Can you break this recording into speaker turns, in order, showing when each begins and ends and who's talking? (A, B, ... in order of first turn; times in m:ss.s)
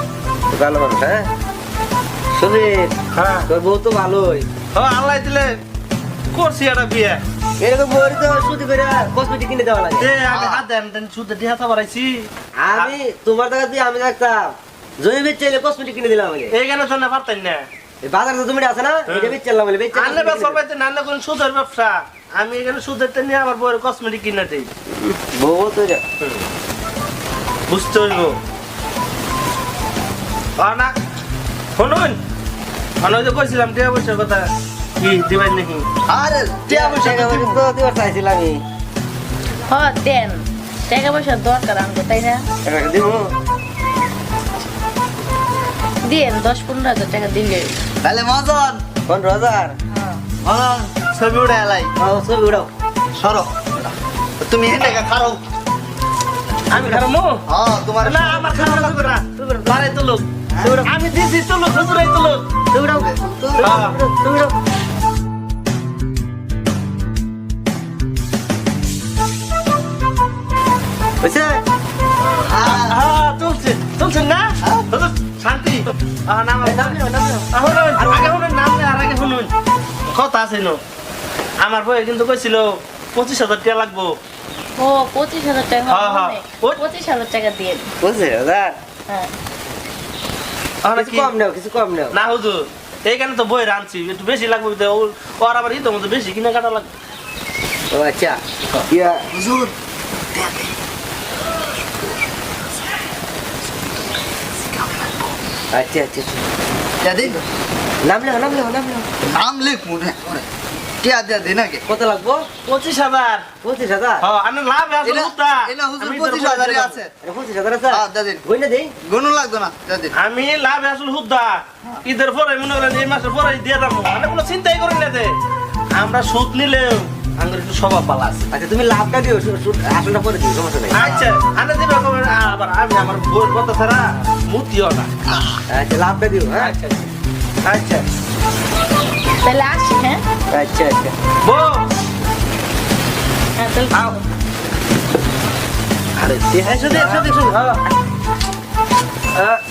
0:00.5-0:01.3 A
0:02.3-0:02.9 A
0:03.1-0:03.5 B
0:03.5-0:04.5 A
0:04.7-0:05.6 B
0:06.3-0:07.2 B
0:07.6-0:10.1 A
0:10.0-0:12.9 B
0:10.3-0:10.6 C
0:12.6-0:16.6 A
0:16.5-0:17.7 B
0:18.0-0:20.6 A
0:19.1-0:19.4 B
0:19.9-0:24.7 B
0:24.9-0:26.0 A
0:27.7-0:28.4 B
0:30.6-0:30.9 B
0:31.8-0:32.2 B
0:33.0-0:35.9 B
0:36.1-0:37.6 C
0:36.7-0:38.6 A
0:39.7-0:42.5 D
0:42.6-0:43.3 A
0:46.0-0:47.7 D
0:48.0-0:48.8 C
0:49.1-0:49.8 A
0:49.9-0:50.2 D
0:50.4-0:51.9 C
0:52.0-0:52.7 A
0:53.2-0:55.4 C
0:56.7-0:57.4 B
0:56.7-0:57.0 A
0:57.5-0:58.9 C
0:58.0-1:00.2 B
0:58.6-0:59.9 A
1:00.5-1:00.8 C
1:00.6-1:00.9 A
1:00.8-1:02.5 B
1:02.7-1:04.6 A
1:02.9-1:03.6 C
1:03.6-1:04.0 B
1:11.2-1:11.6 A
1:12.4-1:13.0 C
1:12.6-1:17.0 B
1:14.6-1:14.9 C
1:16.6-1:18.4 A
1:17.5-1:19.5 B
1:20.1-1:20.8 B
1:21.6-1:24.2 B
1:24.8-1:27.9 D
1:25.9-1:26.8 B
1:28.0-1:28.8 A
1:30.8-1:31.3 B
1:30.9-1:32.2 A
1:32.1-1:36.9 B
1:37.9-1:39.3 A
1:39.3-1:39.8 C
1:40.3-1:40.8 C
1:41.8-1:43.0 C
1:43.6-1:45.4 C
1:45.7-1:46.4 A
1:47.0-1:47.4 C
1:48.0-1:49.1 A
1:49.2-1:50.5 C
1:51.0-1:51.8 C
1:51.9-1:52.4 A
1:52.7-1:53.5 B
1:53.6-1:54.2 A
1:54.2-1:57.0 B
1:55.0-1:57.1 C
1:57.2-1:58.9 A
1:57.9-1:58.4 C
1:59.0-2:00.2 C
2:00.1-2:05.4 B
2:06.0-2:08.5 B
2:08.5-2:11.2 A
2:10.9-2:15.1 B
2:15.3-2:15.6 C
2:15.7-2:16.7 A
2:16.6-2:17.1 B
2:17.6-2:18.0 B
2:19.4-2:20.2 D
2:20.5-2:21.2 A
2:21.4-2:21.9 B
2:23.6-2:24.2 D
2:26.2-2:27.8 B
2:26.6-2:27.6 A